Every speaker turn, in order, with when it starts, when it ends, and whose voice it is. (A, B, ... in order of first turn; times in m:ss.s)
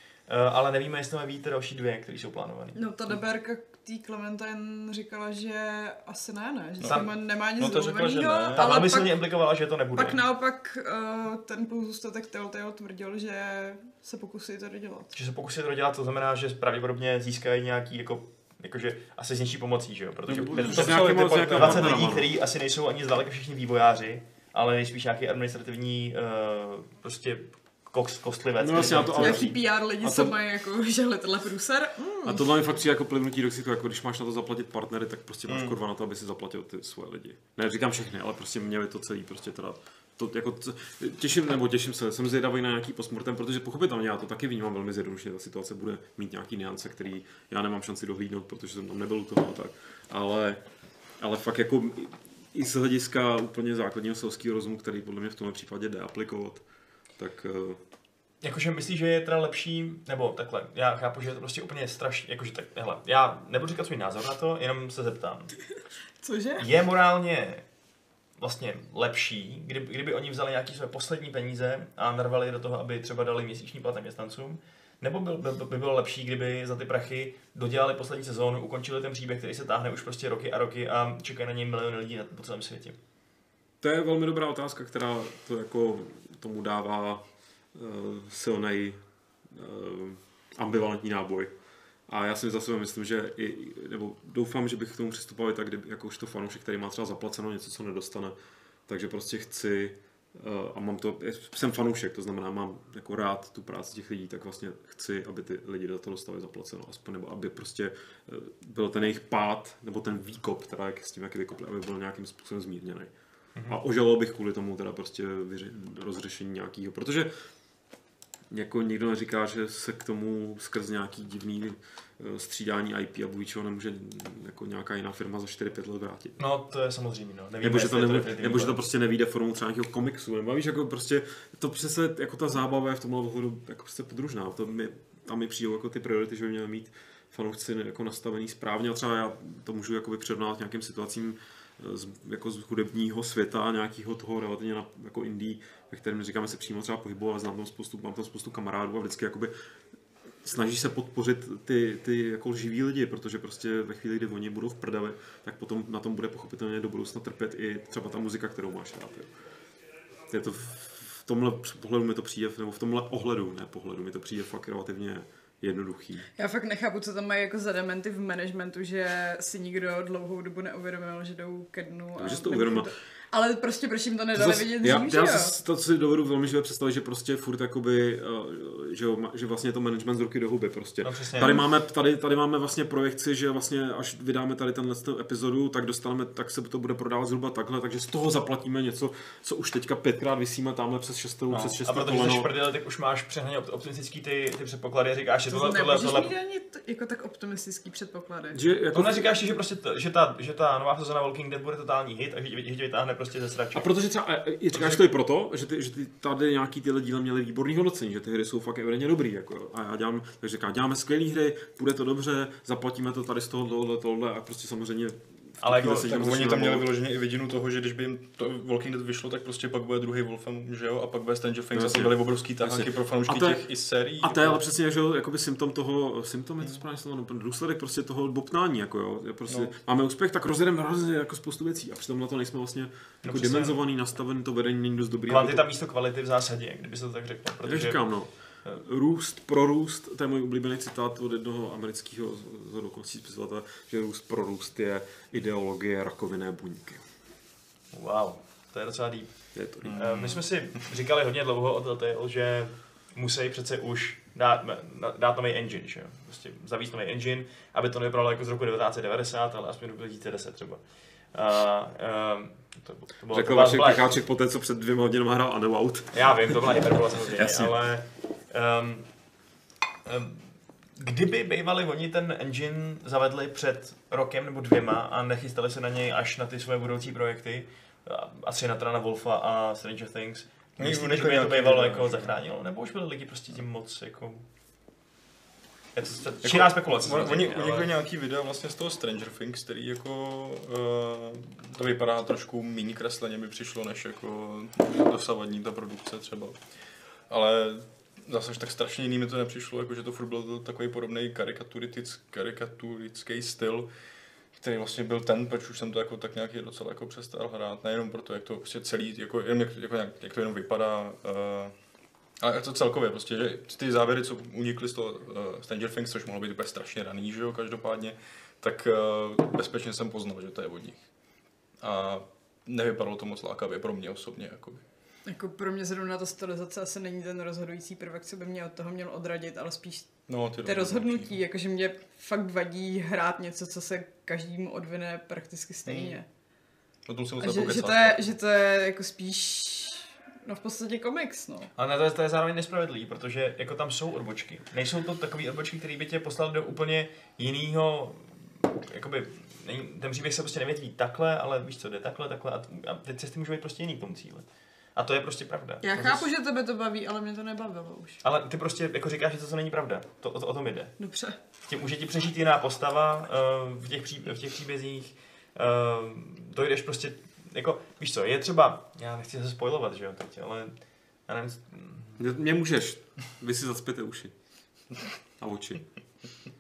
0:00.3-0:02.8 A
0:02.7-0:09.3 B
0:06.8-0:08.6 C
0:08.5-0:10.2 A
0:09.9-0:15.1 B
0:15.1-0:29.6 A
0:20.3-0:22.1 C
0:20.3-0:22.3 D
0:28.6-0:30.3 D
0:29.2-0:32.5 B
0:32.2-0:50.6 D
0:35.5-0:35.8 C
0:51.2-0:56.6 D
0:57.2-0:57.8 D
0:58.4-1:05.5 A
1:06.2-1:06.7 B
1:06.6-1:07.6 A
1:08.4-1:23.0 A
1:23.8-1:29.0 D
1:29.5-1:31.5 D
1:32.1-1:38.3 D
1:38.9-1:53.1 D
1:53.5-1:53.8 A
1:53.6-1:57.3 D
1:58.5-2:06.4 D
2:06.4-2:08.8 A
2:07.6-2:29.5 D
2:30.4-2:39.3 D
2:40.3-2:46.3 D
2:46.4-2:55.5 B
2:52.2-2:52.9 D
2:54.3-3:12.5 D
3:01.0-3:01.6 A
3:11.5-3:16.3 A
3:15.5-3:18.6 B
3:18.5-3:19.4 D
3:18.9-3:23.8 A
3:23.7-3:36.9 D
3:24.7-3:25.0 A
3:35.6-3:36.2 A
3:35.8-3:44.6 C
3:41.7-3:43.6 D
3:44.2-3:55.6 D
3:49.5-3:49.7 C
3:53.2-3:53.8 A
3:55.3-3:58.0 A
3:57.6-4:07.0 D
4:07.9-4:24.1 A
4:09.5-4:10.4 D
4:09.8-4:10.8 C
4:23.3-4:26.6 D
4:26.1-4:29.1 A
4:27.2-4:27.8 D
4:30.0-4:44.4 A
4:40.8-4:42.4 C
4:45.9-4:47.9 A
4:46.4-4:56.6 C
4:57.3-5:03.9 C
5:04.5-5:11.8 C
5:12.4-5:21.1 C
5:21.8-5:24.8 C
5:25.2-5:36.2 B
5:30.3-5:31.4 C
5:35.8-5:36.2 C
5:37.0-5:38.3 C
5:37.4-5:41.7 B
5:41.7-5:56.2 A
5:55.8-5:58.2 B
5:58.2-6:00.9 A
6:01.0-6:01.4 B
6:01.6-6:12.2 A
6:12.2-6:14.3 D
6:15.4-6:15.8 D